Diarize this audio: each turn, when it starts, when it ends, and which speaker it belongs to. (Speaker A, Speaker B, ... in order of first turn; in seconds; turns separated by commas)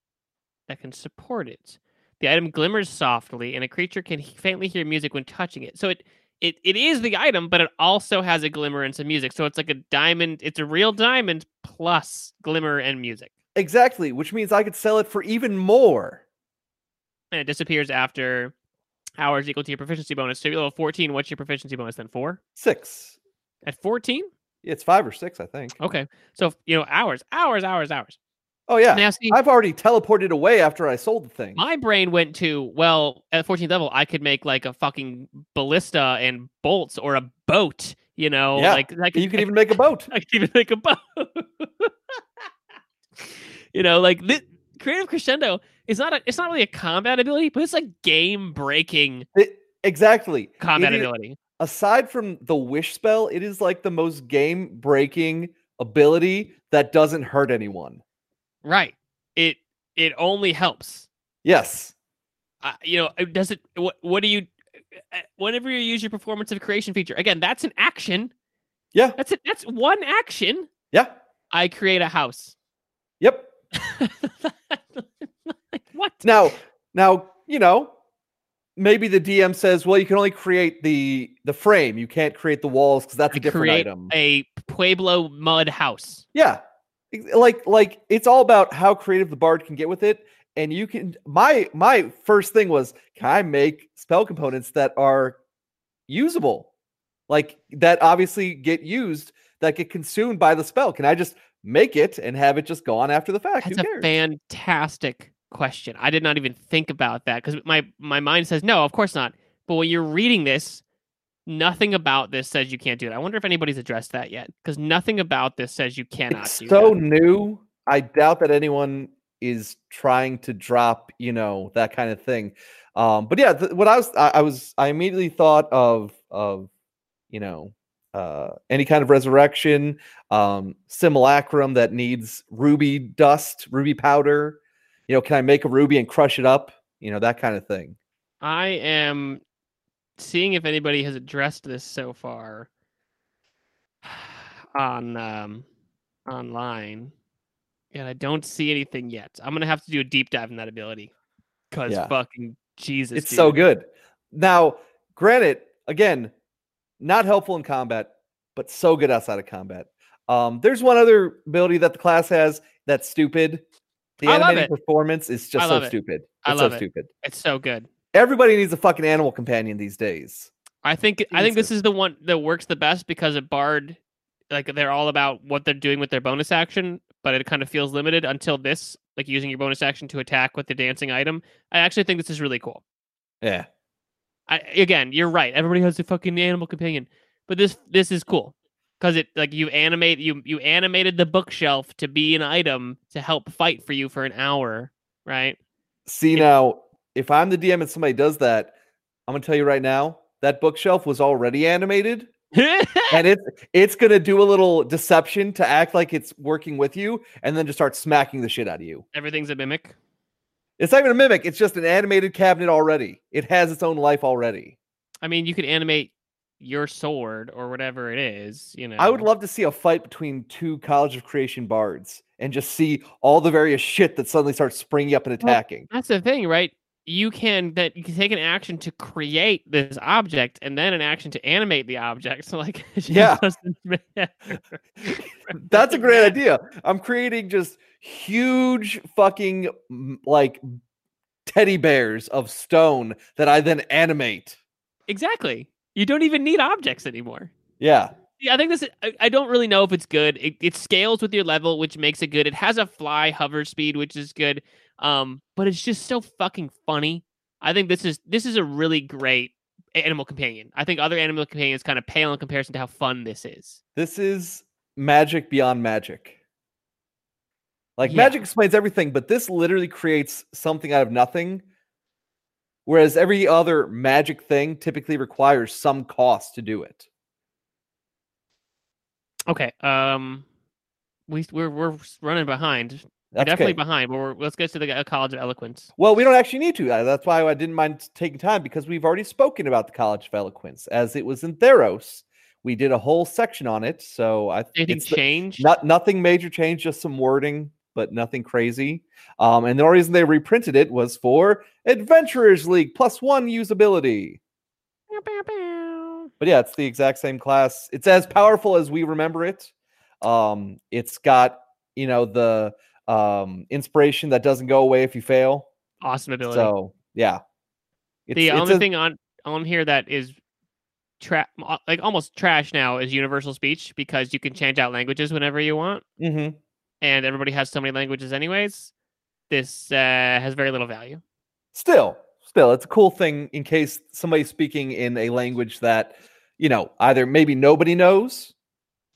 Speaker A: 0.7-13.3, Speaker B: 13.5-16.2, Speaker A: 17.3-18.5, Speaker A: 19.2-22.4, Speaker B: 22.6-23.2, Speaker A: 23.6-24.3, Speaker B: 24.6-25.8, Speaker A: 25.8-28.2, Speaker B: 28.7-31.6, Speaker A: 28.9-29.4, Speaker A: 31.6-41.9, Speaker B: 38.5-40.1, Speaker A: 43.2-49.3, Speaker B: 49.3-58.0, Speaker A: 50.6-51.4, Speaker A: 58.6-61.1, Speaker B: 61.4-61.9, Speaker A: 62.6-68.3, Speaker A: 69.2-70.7, Speaker A: 71.5-72.5, Speaker B: 73.2-73.5, Speaker A: 73.7-76.5, Speaker B: 76.2-77.9, Speaker B: 78.8-84.1, Speaker A: 83.3-86.2, Speaker B: 86.3-86.6, Speaker B: 87.1-95.4, Speaker B: 96.1-96.7, Speaker B: 97.3-104.1, Speaker A: 103.6-110.8, Speaker A: 111.5-117.0, Speaker B: 116.3-126.7, Speaker B: 127.3-137.9, Speaker A: 138.4-139.4, Speaker A: 140.2-142.7, Speaker A: 144.0-145.7, Speaker A: 146.3-147.1, Speaker A: 147.9-151.1, Speaker A: 151.7-153.6, Speaker B: 151.9-152.1, Speaker B: 153.1-156.3, Speaker B: 157.0-163.6, Speaker B: 164.2-167.1, Speaker A: 164.2-164.7, Speaker A: 165.6-167.9, Speaker B: 168.1-170.5, Speaker A: 170.8-174.0, Speaker B: 171.3-171.7, Speaker A: 174.5-182.8, Speaker B: 183.4-183.7, Speaker A: 184.5-195.6, Speaker B: 196.1-198.7, Speaker B: 199.3-202.3, Speaker A: 202.5-203.2, Speaker B: 203.1-209.0, Speaker A: 209.1-209.9, Speaker B: 210.8-214.8, Speaker A: 215.2-219.3, Speaker B: 219.0-225.9, Speaker A: 225.4-236.3, Speaker B: 233.1-233.4, Speaker B: 235.6-240.6, Speaker B: 241.4-244.6, Speaker A: 245.1-247.5, Speaker B: 247.8-248.1, Speaker A: 248.4-263.8, Speaker B: 263.9-266.4, Speaker B: 268.0-271.6, Speaker A: 268.0-268.4, Speaker B: 272.9-277.1, Speaker A: 279.5-280.4, Speaker A: 281.3-285.9, Speaker B: 283.3-283.8, Speaker B: 286.0-304.4, Speaker A: 294.7-295.7, Speaker A: 305.1-306.3, Speaker B: 306.4-315.7, Speaker A: 316.0-316.7, Speaker B: 316.4-317.4, Speaker B: 318.3-318.9, Speaker A: 318.3-320.4, Speaker A: 321.2-326.0, Speaker B: 326.2-326.6, Speaker A: 327.0-328.9, Speaker A: 329.5-331.2, Speaker B: 331.7-338.5